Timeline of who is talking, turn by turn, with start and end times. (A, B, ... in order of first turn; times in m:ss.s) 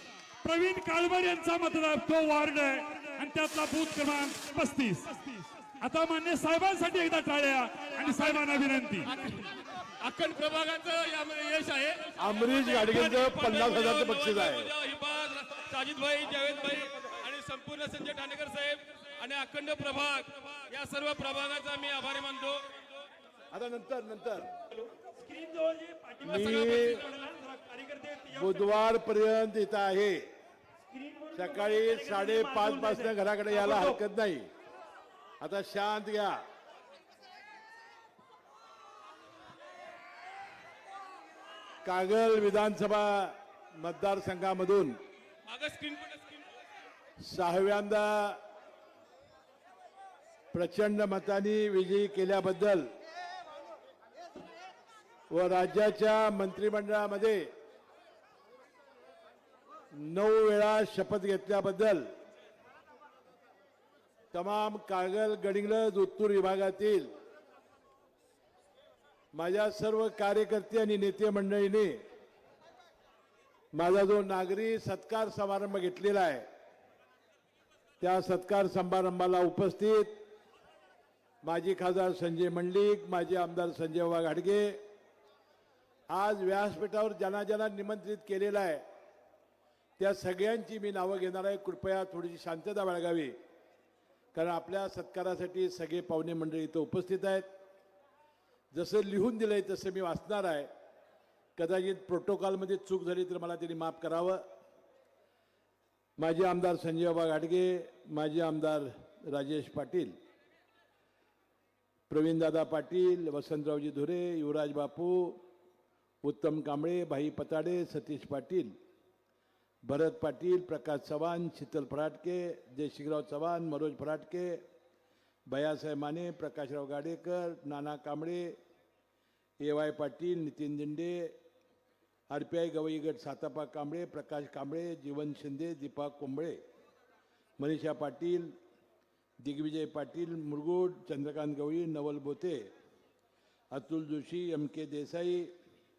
0:00.4-0:09.4 A
0:09.2-0:22.7 B
0:12.2-0:14.7 C
0:23.5-0:24.5 C
0:25.2-0:28.2 A
0:25.4-0:28.0 B
0:26.2-0:27.1 C
0:28.3-0:30.2 C
0:31.0-0:32.7 A
0:31.3-0:34.5 C
0:33.6-0:33.9 A
0:35.4-0:36.4 C
0:41.8-0:45.0 C
0:45.5-0:46.4 B
0:47.2-0:48.4 C
0:50.5-0:52.8 C
0:55.3-0:57.4 C
0:59.9-1:02.0 C
1:04.3-1:07.1 C
1:09.3-1:12.0 C
1:13.7-1:16.4 C
1:18.0-1:20.2 C
1:21.4-1:24.8 C
1:26.1-1:28.8 C
1:30.0-1:33.3 C
1:34.3-1:37.4 C
1:38.7-1:40.7 C
1:41.6-1:44.4 C
1:46.2-1:50.1 C
1:52.1-1:55.4 C
1:56.2-1:58.7 C
1:59.8-2:04.6 C
2:05.5-2:08.5 C
2:09.6-2:11.3 C
2:12.3-2:16.6 C
2:17.6-2:18.5 C
2:19.4-2:22.6 C
2:23.7-2:25.5 C